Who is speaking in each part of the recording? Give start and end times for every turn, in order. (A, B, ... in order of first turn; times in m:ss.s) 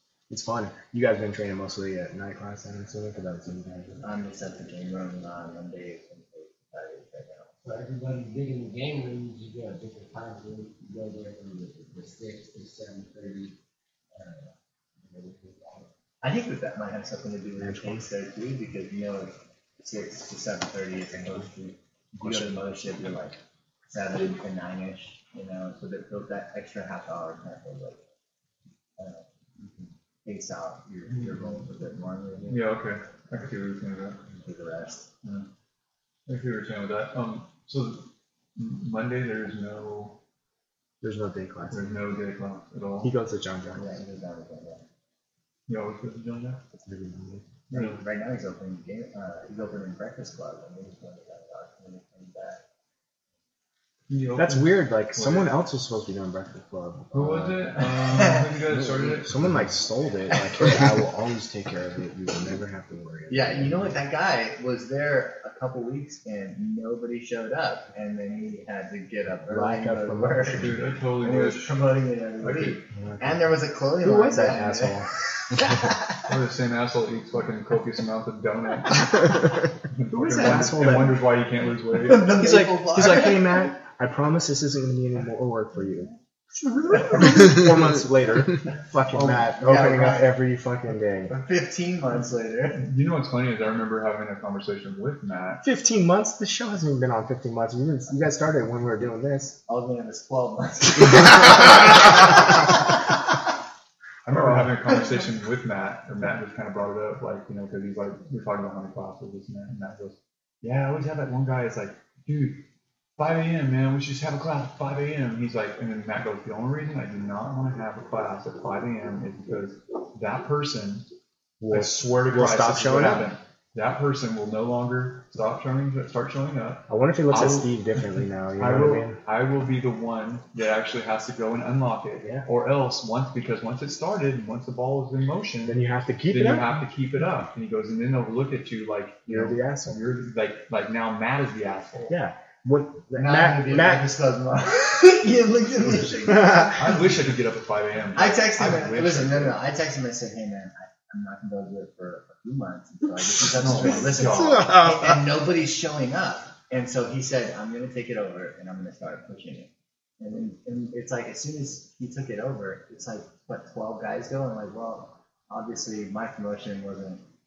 0:00.3-0:04.0 A
0:04.0-0:07.5 B
0:07.6-0:13.6 C
0:14.1-0:15.9 C
0:16.2-0:28.0 B
0:17.6-0:18.1 A
0:22.2-0:22.6 A
0:29.0-0:32.6 B
0:32.5-0:34.2 D
0:34.3-0:35.1 B
0:35.2-0:35.5 D
0:36.3-0:40.2 D
0:41.0-0:41.9 A
0:41.7-0:43.1 D
0:43.0-0:44.0 A
0:43.8-0:44.8 B
0:45.7-0:46.6 D
0:46.8-0:47.5 A
0:47.7-0:48.0 D
0:47.7-0:52.6 B
0:54.1-0:55.6 D
0:54.4-0:57.7 A
0:57.1-0:59.6 D
0:59.1-1:04.0 A
1:03.3-1:15.0 B
1:09.5-1:10.8 A
1:10.5-1:11.8 D
1:12.4-1:12.8 D
1:13.0-1:13.4 A
1:14.0-1:15.1 A
1:16.2-1:19.3 D
1:19.9-1:22.4 D
1:20.1-1:21.3 A
1:22.0-1:23.6 B
1:22.3-1:31.3 A
1:29.4-1:30.4 B
1:31.3-1:32.8 B
1:32.8-1:35.6 D
1:35.6-1:39.6 A
1:39.7-1:42.2 B
1:44.2-1:52.6 D
1:44.3-1:44.7 A
1:53.2-2:01.1 D
2:01.6-2:03.3 A
2:01.7-2:22.2 D
2:06.9-2:09.2 A
2:15.6-2:16.8 A
2:19.3-2:20.0 A
2:22.1-2:24.1 A
2:23.2-2:26.9 B
2:26.3-2:26.8 A
2:26.8-2:29.6 D
2:28.2-2:47.2 B
2:33.6-2:34.8 D